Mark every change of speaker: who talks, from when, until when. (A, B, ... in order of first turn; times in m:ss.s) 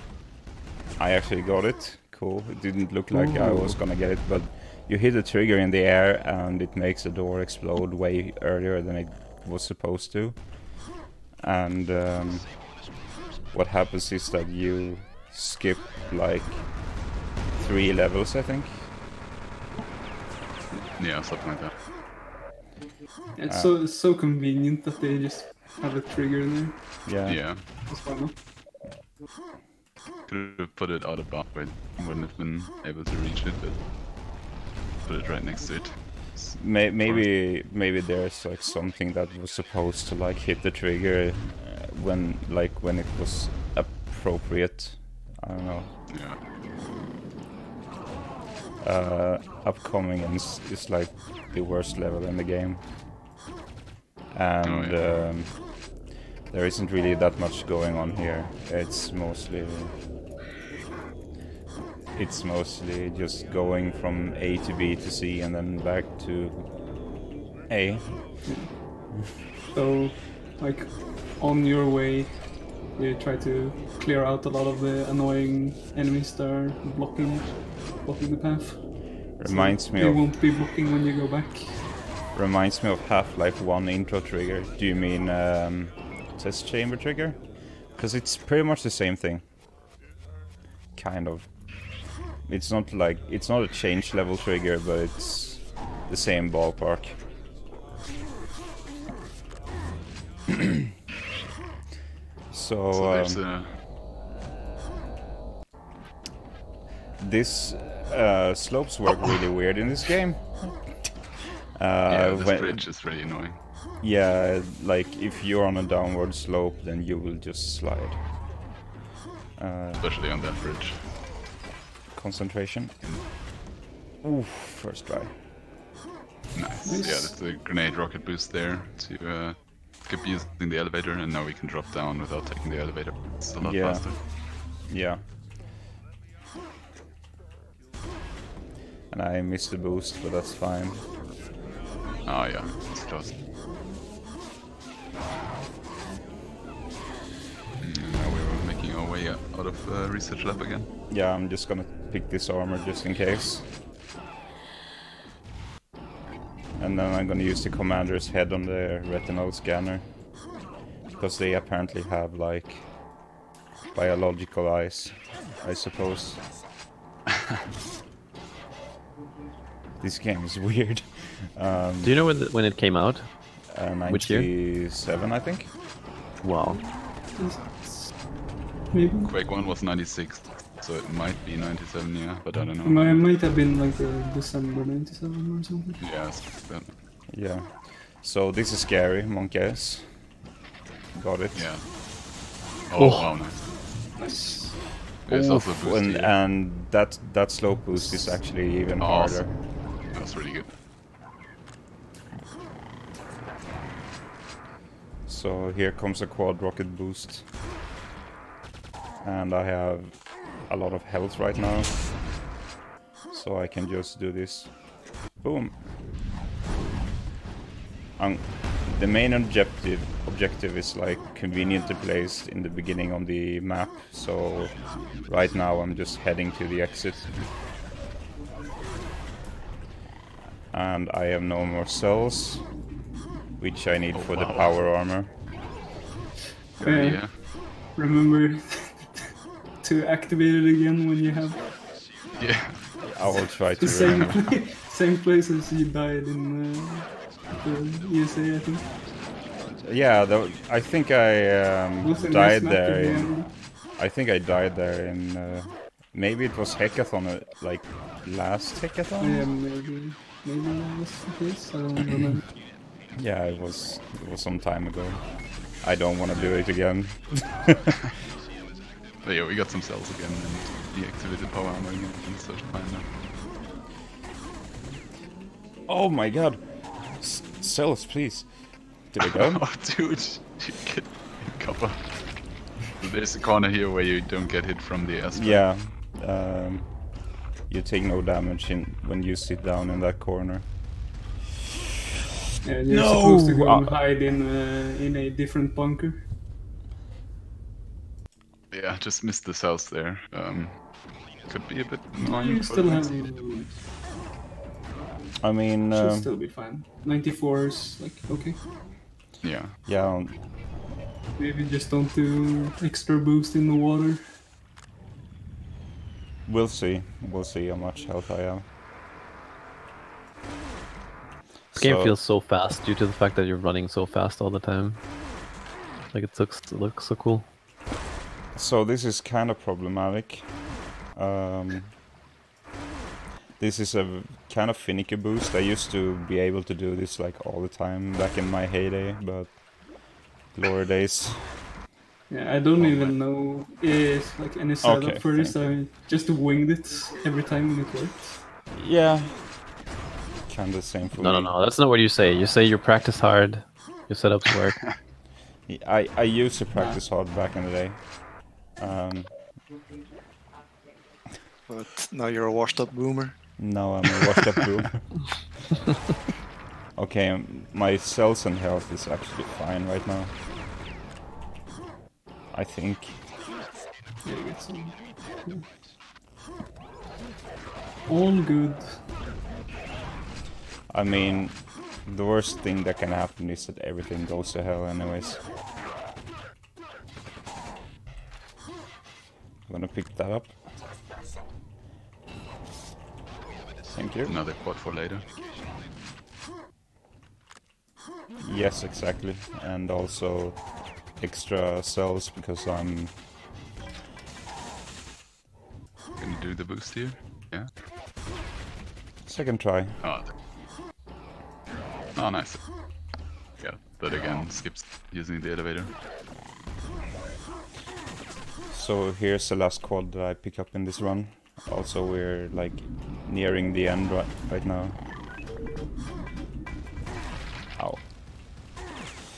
0:01.0-0:10.9 A
0:03.1-0:03.8 B
0:11.4-0:12.9 A
0:13.5-0:18.9 A
0:21.0-0:21.8 C
0:23.4-0:28.4 B
0:23.5-0:23.7 A
0:27.0-0:27.5 A
0:27.2-0:27.6 C
0:30.3-0:33.8 C
0:35.0-0:37.3 C
0:36.6-0:46.0 A
0:46.1-0:46.4 C
0:48.8-0:52.9 A
0:54.3-1:00.0 A
0:54.6-0:55.0 C
1:02.1-1:07.2 A
1:07.7-1:08.6 A
1:08.4-1:21.9 B
1:19.4-1:20.3 A
1:22.3-1:29.4 A
1:30.9-1:37.2 A
1:42.5-1:43.5 A
1:42.9-1:43.8 C
1:47.2-1:51.1 A
1:51.8-1:52.9 A
1:52.1-1:53.6 C
1:54.0-1:58.3 A
1:59.6-2:00.0 A
2:00.0-2:01.1 C
2:02.1-2:02.9 A
2:04.2-2:05.4 A
2:06.5-2:14.2 C
2:06.9-2:07.3 B
2:13.6-2:15.3 A
2:19.1-2:21.0 A
2:22.2-2:23.3 C
2:27.8-2:30.9 C
2:31.1-2:33.7 A
2:36.8-2:40.3 A
2:41.2-2:43.2 A
2:43.9-2:46.5 A
2:50.0-2:52.2 A
2:52.0-2:54.5 D
2:53.7-2:55.7 A
2:56.4-2:56.8 D
2:56.7-2:58.2 B
2:58.9-2:59.3 B
2:59.2-3:03.3 C
3:02.8-3:06.0 B
3:06.0-3:06.9 C
3:07.3-3:10.4 A
3:11.1-3:11.8 A
3:11.5-3:11.9 C
3:12.9-3:13.9 C
3:13.0-3:13.2 D
3:14.2-3:15.0 B
3:15.2-3:19.6 A
3:15.3-3:16.4 C
3:19.0-3:20.7 C
3:25.3-3:27.5 A
3:29.2-3:32.4 A
3:33.3-3:35.9 A
3:38.2-3:47.5 A
3:50.7-3:52.8 A
3:53.6-3:55.4 A
3:54.1-3:55.0 C
3:56.8-4:01.9 B
3:56.8-3:57.4 C
4:02.4-4:04.4 C
4:03.0-4:04.5 A
4:03.8-4:09.0 B
4:09.8-4:19.5 A
4:12.0-4:13.5 B
4:19.2-4:22.6 B
4:23.1-4:27.9 A
4:26.3-4:26.6 C
4:29.2-4:33.1 C
4:35.8-4:39.7 A
4:39.2-4:45.8 C
4:45.3-4:51.2 A
4:52.6-4:56.3 B
4:52.9-4:54.0 A
4:58.7-5:03.6 C
5:02.2-5:03.8 B
5:05.4-5:06.3 A
5:05.9-5:09.0 B
5:09.4-5:09.8 C
5:09.8-5:10.4 A
5:11.4-5:14.2 B
5:16.4-5:18.7 A
5:21.7-5:22.2 A
5:21.7-5:25.0 D
5:26.1-5:27.5 D
5:28.5-5:32.0 A
5:33.6-5:41.7 A
5:42.3-5:48.4 B
5:42.8-5:43.1 C
5:44.8-5:45.6 A
5:48.7-5:49.8 A
5:50.5-5:51.5 A
5:51.2-5:54.9 D
5:55.7-5:59.4 A
5:56.8-5:57.0 B
6:01.7-6:03.8 E
6:03.6-6:05.5 A
6:07.0-6:10.4 A
6:12.5-6:13.2 A
6:14.2-6:15.8 B
6:18.1-6:19.0 B
6:20.9-6:25.4 A
6:29.7-6:30.6 A
6:33.9-6:34.4 A
6:34.2-6:35.3 C
6:38.4-6:43.2 A
6:46.2-6:47.7 C
6:49.2-6:50.0 A
6:50.0-6:50.3 C
6:52.2-6:56.0 C
6:58.7-7:05.0 A
7:07.8-7:08.1 A